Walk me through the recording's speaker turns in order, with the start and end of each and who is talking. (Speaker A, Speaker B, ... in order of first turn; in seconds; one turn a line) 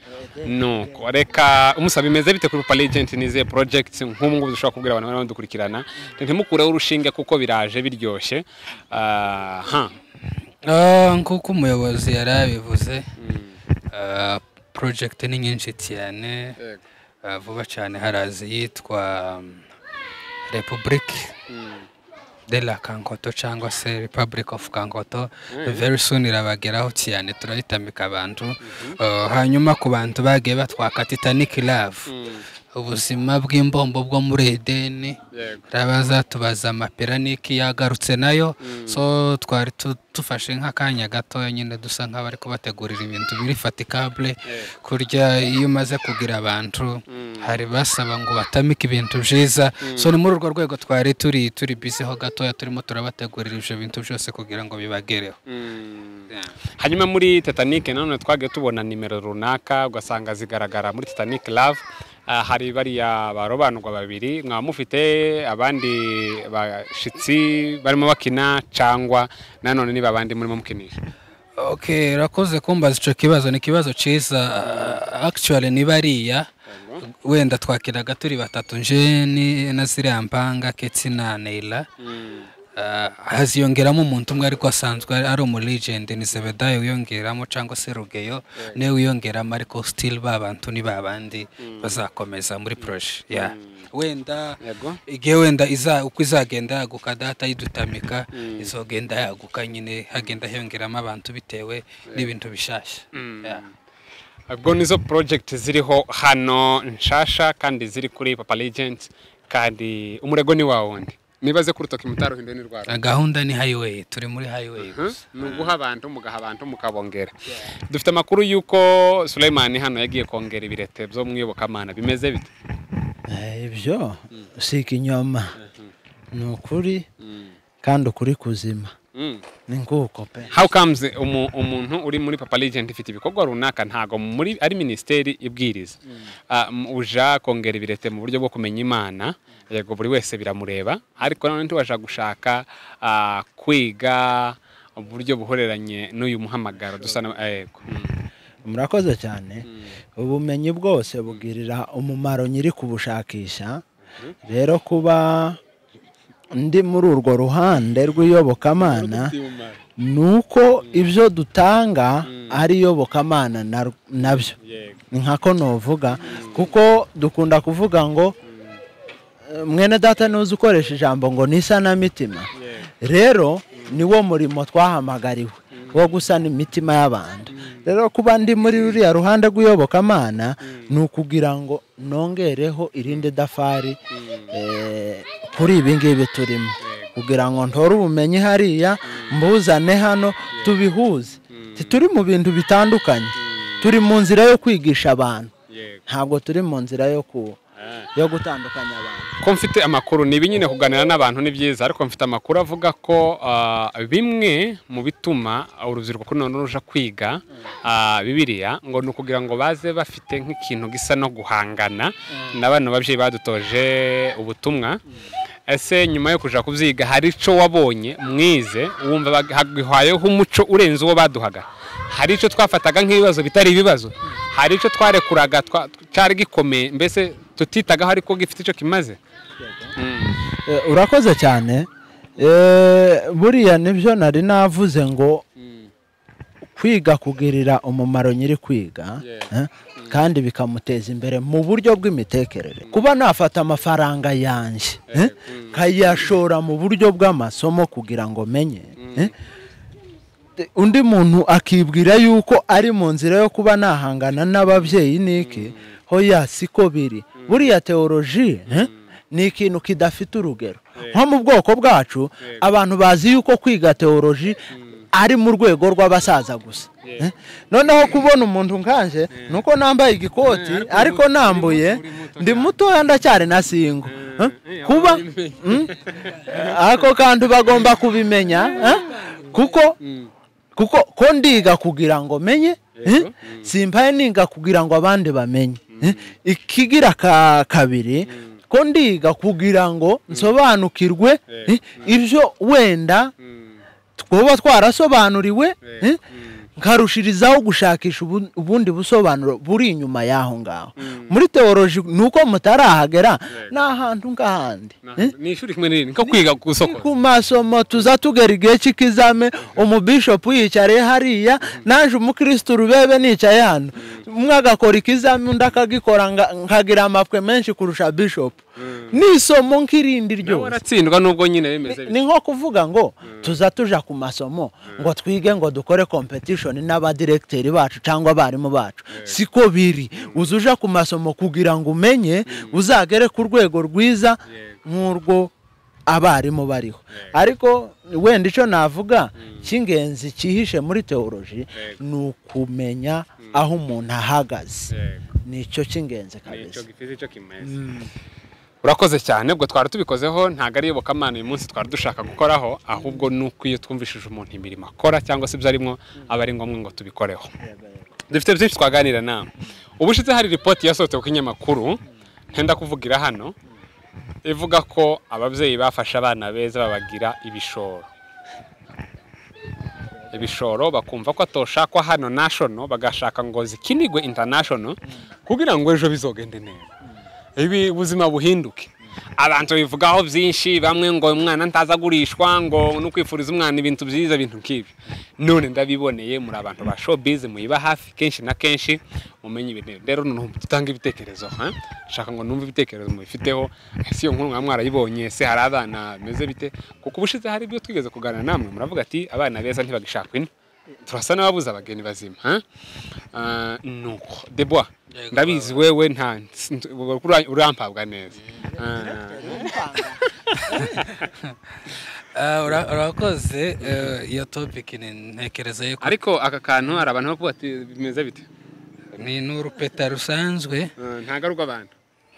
Speaker A: 0.2-0.6
Speaker B: 0.5-9.9
Speaker C: 10.6-13.1
Speaker B: 13.2-13.6
Speaker C: 13.9-16.6
Speaker C: 17.2-19.6
Speaker C: 20.5-21.4
Speaker B: 21.5-21.9
Speaker C: 22.5-32.1
Speaker B: 25.5-25.8
Speaker B: 28.6-29.0
Speaker B: 32.1-32.5
Speaker C: 32.7-35.2
Speaker B: 35.3-35.6
Speaker C: 35.7-55.4
Speaker B: 38.6-39.0
Speaker B: 47.1-47.5
Speaker B: 49.8-50.1
Speaker B: 55.5-70.9
Speaker C: 71.6-76.5
Speaker B: 74.6-75.0
Speaker B: 76.7-77.0
Speaker C: 77.0-81.9
Speaker B: 82.0-82.5
Speaker C: 82.8-103.6
Speaker B: 91.7-92.0
Speaker B: 93.3-93.6
Speaker B: 94.6-95.0
Speaker B: 98.4-98.7
Speaker B: 103.1-103.7
Speaker B: 104.5-112.9
Speaker C: 112.9-115.7
Speaker B: 114.8-117.3
Speaker B: 117.9-122.5
Speaker A: 123.3-125.5
Speaker B: 125.7-125.9
Speaker A: 126.3-127.1
Speaker B: 127.2-127.5
Speaker A: 127.8-128.9
Speaker B: 129.1-129.4
Speaker A: 129.7-130.7
Speaker B: 130.5-136.0
Speaker B: 136.5-148.2
Speaker A: 148.7-149.7
Speaker A: 150.2-153.8
Speaker A: 154.4-155.6
Speaker A: 156.5-159.3
Speaker B: 158.8-159.8
Speaker A: 160.0-164.5
Speaker B: 162.3-162.6
Speaker B: 164.2-165.0
Speaker A: 165.1-168.3
Speaker B: 166.2-166.7
Speaker B: 168.5-168.8
Speaker A: 169.5-172.5
Speaker B: 172.6-172.9
Speaker A: 173.0-184.0
Speaker B: 173.8-174.0
Speaker B: 175.8-176.0
Speaker B: 177.6-177.9
Speaker B: 178.7-179.0
Speaker B: 184.2-184.5
Speaker A: 184.5-195.5
Speaker B: 186.8-187.1
Speaker B: 190.5-190.8
Speaker B: 191.5-192.0
Speaker B: 193.4-193.9
Speaker B: 195.7-196.0
Speaker A: 196.1-197.6
Speaker B: 197.8-198.1
Speaker A: 198.2-199.3
Speaker B: 199.4-215.0
Speaker B: 215.7-229.2
Speaker B: 230.0-230.5
Speaker A: 230.7-235.4
Speaker B: 235.6-235.9
Speaker A: 236.8-249.3
Speaker B: 239.2-240.2
Speaker B: 245.1-246.3
Speaker B: 249.0-249.3
Speaker A: 250.6-264.6
Speaker B: 254.8-255.8
Speaker B: 257.4-257.7
Speaker B: 264.7-265.1
Speaker A: 265.1-280.0
Speaker B: 267.0-267.3
Speaker B: 269.4-269.6
Speaker B: 270.4-272.8
Speaker B: 274.1-276.8
Speaker B: 280.0-280.3
Speaker A: 280.8-293.3
Speaker B: 282.9-283.7
Speaker B: 285.9-286.2
Speaker B: 291.5-292.1
Speaker B: 293.4-293.8
Speaker A: 294.2-296.2
Speaker B: 295.8-296.6
Speaker A: 296.8-305.3
Speaker B: 301.0-301.4
Speaker B: 305.0-307.1
Speaker A: 306.2-320.8
Speaker B: 318.8-319.2
Speaker B: 320.4-322.2
Speaker A: 321.9-335.5
Speaker B: 329.1-329.4
Speaker B: 332.5-332.8
Speaker B: 334.5-334.8
Speaker A: 336.1-344.9
Speaker B: 344.9-345.2
Speaker A: 345.5-346.9
Speaker B: 346.5-347.9
Speaker A: 347.6-348.1
Speaker B: 348.8-357.5
Speaker A: 357.6-358.0
Speaker B: 358.3-362.0
Speaker B: 362.5-363.5
Speaker B: 364.4-368.1
Speaker B: 370.3-376.9
Speaker B: 377.6-400.5
Speaker B: 401.1-402.6
Speaker B: 403.3-409.9
Speaker C: 405.1-405.9
Speaker A: 408.6-411.1
Speaker B: 410.5-411.3
Speaker C: 410.7-416.1
Speaker B: 413.8-414.1
Speaker B: 416.0-418.5
Speaker C: 419.1-420.9
Speaker B: 421.0-421.9